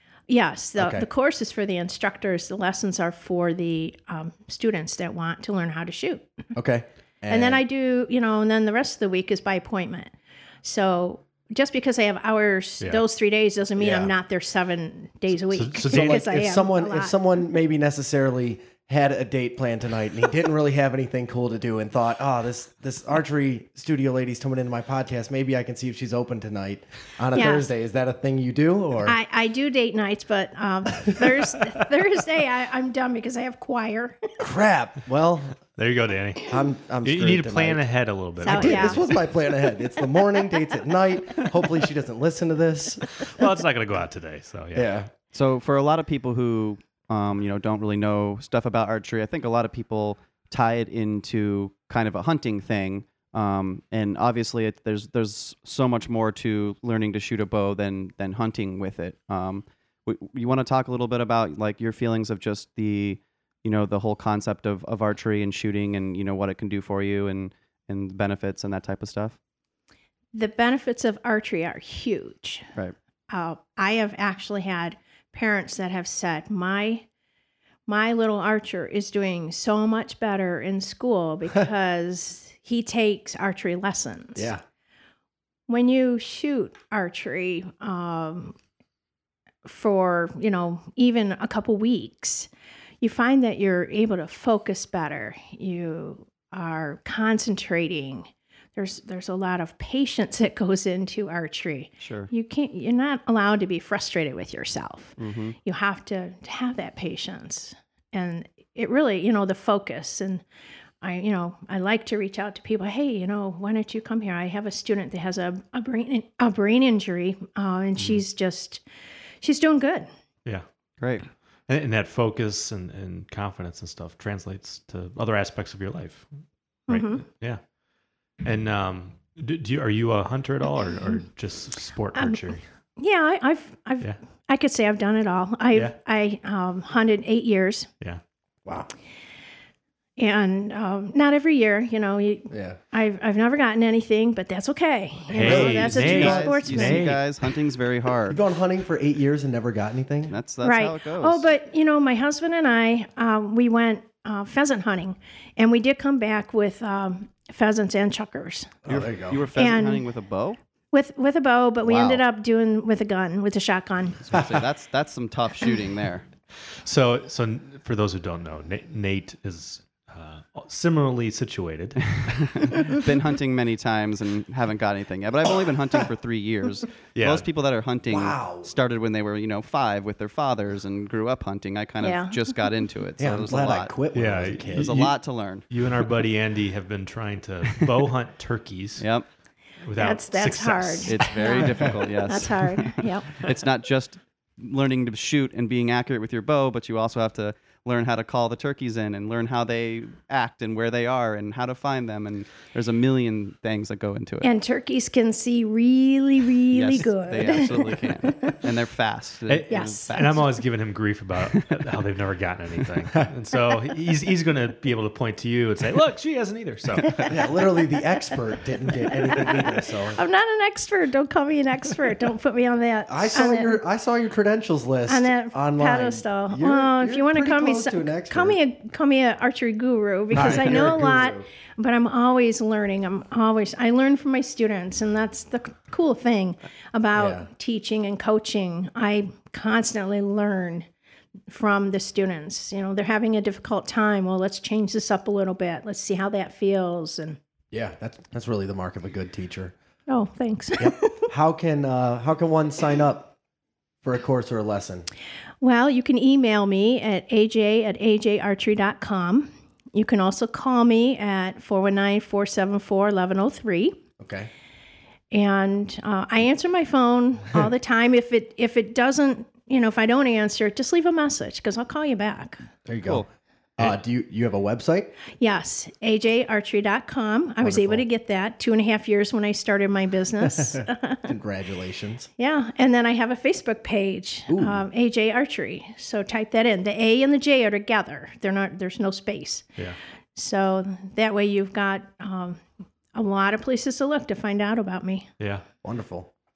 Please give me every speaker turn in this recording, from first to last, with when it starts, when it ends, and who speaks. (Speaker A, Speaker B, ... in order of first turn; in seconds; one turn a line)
Speaker A: 0.3-6.3
Speaker B: 0.8-1.1
Speaker B: 6.5-7.6
Speaker A: 7.3-10.1
Speaker A: 10.6-17.2
Speaker B: 13.8-14.1
Speaker C: 15.5-16.3
Speaker B: 15.9-29.2
Speaker A: 27.3-27.7
Speaker A: 29.1-34.4
Speaker B: 34.4-35.6
Speaker C: 35.8-39.0
Speaker B: 36.5-37.8
Speaker A: 38.4-39.1
Speaker B: 38.4-43.3
Speaker C: 43.3-44.9
Speaker B: 44.8-45.1
Speaker D: 45.3-69.4
Speaker A: 70.3-72.7
Speaker A: 73.3-77.1
Speaker A: 77.9-84.5
Speaker B: 84.4-84.6
Speaker A: 85.7-88.6
Speaker A: 89.7-92.5
Speaker A: 93.0-110.4
Speaker D: 102.0-102.3
Speaker D: 105.2-105.6
Speaker A: 111.0-118.8
Speaker A: 119.4-120.1
Speaker D: 121.0-121.3
Speaker C: 121.7-126.3
Speaker A: 126.9-127.2
Speaker C: 126.9-127.6
Speaker C: 128.4-132.6
Speaker A: 132.1-132.5
Speaker A: 133.0-137.9
Speaker B: 138.7-138.9
Speaker A: 140.2-147.1
Speaker B: 142.5-142.8
Speaker C: 145.3-147.2
Speaker B: 145.4-146.6
Speaker D: 145.4-148.4
Speaker B: 148.3-150.3
Speaker D: 150.3-151.5
Speaker A: 150.6-158.7
Speaker B: 158.8-159.4
Speaker D: 158.9-160.6
Speaker A: 159.6-160.0
Speaker A: 160.9-164.4
Speaker D: 161.8-162.2
Speaker D: 164.2-166.3
Speaker B: 164.3-164.6
Speaker C: 166.8-173.0
Speaker D: 172.3-183.9
Speaker C: 177.2-177.5
Speaker B: 178.1-178.7
Speaker A: 182.0-182.5
Speaker B: 183.2-185.0
Speaker C: 184.1-185.2
Speaker D: 184.7-185.7
Speaker C: 185.7-189.1
Speaker D: 189.0-189.3
Speaker C: 189.8-191.6
Speaker A: 190.0-193.3
Speaker D: 191.1-204.5
Speaker A: 204.4-208.6
Speaker D: 206.7-210.5
Speaker C: 209.5-217.3
Speaker A: 209.7-210.2
Speaker D: 211.5-211.8
Speaker B: 217.3-220.2
Speaker A: 219.2-223.8
Speaker B: 223.1-228.6
Speaker A: 225.1-240.9
Speaker B: 230.3-231.5
Speaker B: 237.2-237.5
Speaker A: 241.5-247.4
Speaker B: 247.7-249.7
Speaker A: 250.1-251.3
Speaker B: 250.8-253.3
Speaker B: 254.0-255.1
Speaker A: 255.6-264.0
Speaker B: 264.2-264.5
Speaker A: 265.3-272.7
Speaker B: 272.9-273.3
Speaker B: 273.8-275.1
Speaker A: 275.4-281.3
Speaker B: 277.6-278.1
Speaker B: 280.4-282.3
Speaker A: 282.4-289.7
Speaker B: 284.5-284.8
Speaker A: 290.4-292.6
Speaker A: 293.1-295.3
Speaker C: 295.4-295.6
Speaker B: 295.8-296.3